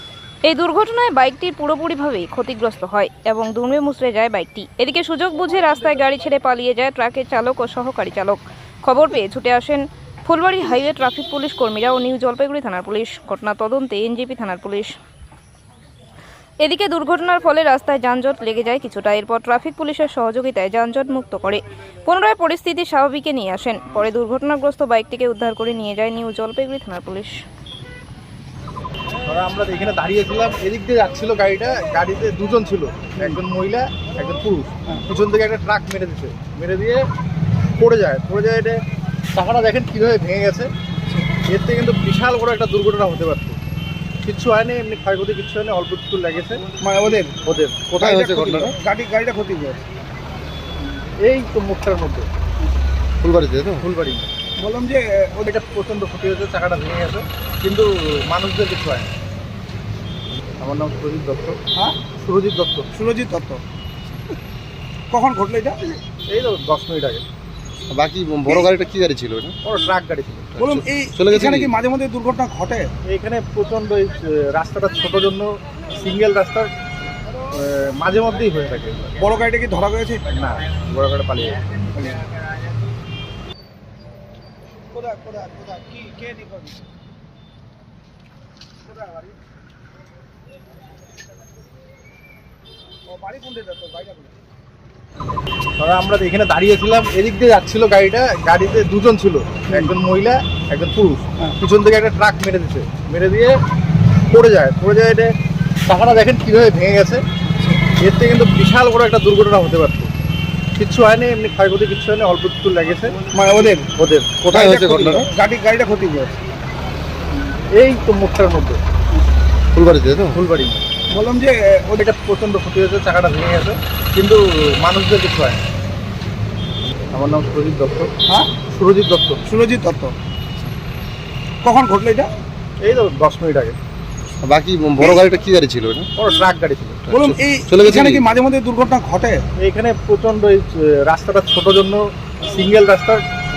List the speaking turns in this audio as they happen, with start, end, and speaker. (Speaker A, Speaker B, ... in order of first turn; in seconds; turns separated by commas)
Speaker A: 0.4-14.9, Speaker A: 16.6-27.4, Speaker B: 29.2-37.0, Speaker B: 37.8-38.8, Speaker B: 39.3-40.7, Speaker B: 41.5-43.6, Speaker B: 44.2-46.6, Speaker C: 46.8-47.4, Speaker B: 47.4-48.0, Speaker D: 48.0-48.8, Speaker C: 48.0-49.8, Speaker B: 51.2-52.3, Speaker D: 53.2-53.9, Speaker B: 53.8-54.3, Speaker C: 54.6-55.5, Speaker B: 55.5-59.1, Speaker B: 60.6-61.6, Speaker C: 61.7-62.0, Speaker B: 62.1-62.9, Speaker C: 62.9-63.6, Speaker C: 65.1-66.0, Speaker B: 66.3-67.2, Speaker D: 67.9-69.5, Speaker B: 69.6-70.5, Speaker D: 70.5-71.7, Speaker C: 70.6-72.9, Speaker B: 73.1-76.7, Speaker B: 77.5-79.2, Speaker C: 79.2-80.2, Speaker B: 80.3-81.6, Speaker C: 81.9-82.2, Speaker C: 84.9-86.8, Speaker C: 88.8-89.3, Speaker C: 93.0-94.3, Speaker B: 95.8-103.5, Speaker B: 104.3-105.3, Speaker B: 105.8-107.2, Speaker C: 107.5-107.8, Speaker B: 108.0-110.1, Speaker B: 110.8-113.2, Speaker C: 113.3-113.9, Speaker B: 114.0-114.5, Speaker C: 114.5-116.4, Speaker D: 114.5-115.3, Speaker B: 117.7-118.8, Speaker D: 119.7-120.4, Speaker B: 120.3-120.9, Speaker C: 121.1-122.0, Speaker B: 122.0-125.6, Speaker B: 127.1-128.1, Speaker B: 128.7-129.4, Speaker C: 129.4-130.1, Speaker C: 131.6-132.3, Speaker B: 132.8-133.8, Speaker D: 134.4-136.1, Speaker B: 136.2-137.0, Speaker D: 137.1-138.2, Speaker C: 137.1-139.4, Speaker B: 139.6-143.2